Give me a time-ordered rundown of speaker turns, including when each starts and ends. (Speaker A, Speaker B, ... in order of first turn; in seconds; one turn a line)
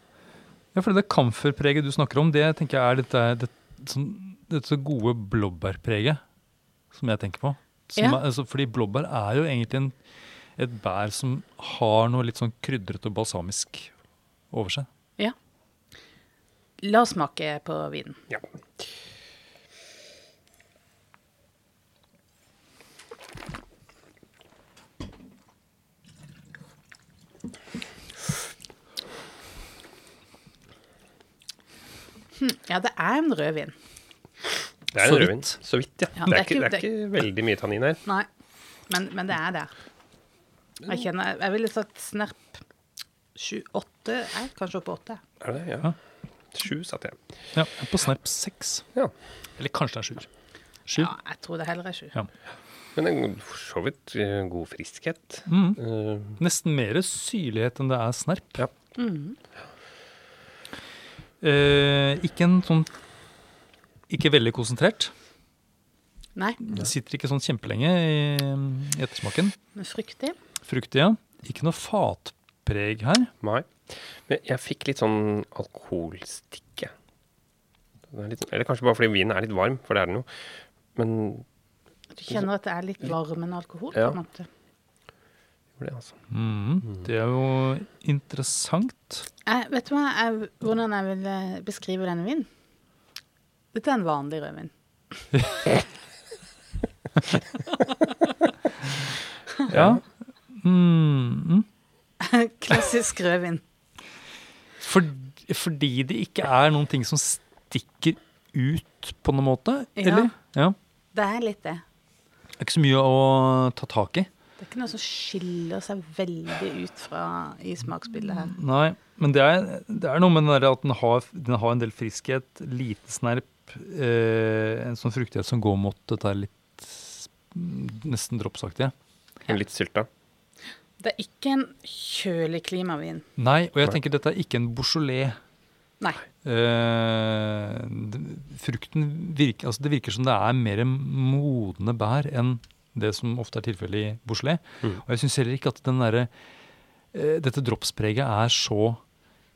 Speaker A: 0.7-6.2
Speaker A: 6.9-9.9
Speaker A: 10.6-13.9
Speaker A: 14.5-14.9
Speaker B: 16.8-18.2
Speaker C: 18.3-18.8
Speaker B: 32.4-33.7
Speaker C: 34.9-38.0
Speaker A: 34.9-35.6
Speaker B: 36.1-36.9
Speaker B: 38.9-39.8
Speaker B: 40.9-42.6
Speaker B: 43.3-45.2
Speaker C: 45.4-45.9
Speaker C: 46.5-47.5
Speaker A: 47.5-48.9
Speaker A: 49.5-50.3
Speaker A: 50.9-51.1
Speaker B: 51.0-52.1
Speaker C: 53.0-56.4
Speaker A: 55.5-58.6
Speaker B: 59.0-59.4
Speaker A: 61.4-62.9
Speaker A: 64.1-65.1
Speaker B: 66.3-66.6
Speaker A: 66.6-69.5
Speaker B: 69.7-70.3
Speaker A: 70.7-73.3
Speaker C: 73.4-76.9
Speaker C: 78.1-81.5
Speaker B: 82.1-84.5
Speaker C: 85.8-86.2
Speaker A: 86.3-89.2
Speaker B: 89.4-92.5
Speaker B: 93.7-95.2
Speaker A: 95.3-95.6
Speaker C: 99.7-100.0
Speaker A: 99.7-101.6
Speaker B: 102.2-103.6
Speaker A: 104.8-110.8
Speaker B: 110.0-110.3
Speaker B: 111.1-111.8
Speaker A: 112.6-114.3
Speaker B: 114.6-118.5
Speaker A: 118.4-128.9
Speaker C: 129.5-130.1
Speaker B: 131.0-133.2
Speaker A: 133.3-135.3
Speaker A: 136.4-146.3
Speaker A: 147.1-149.0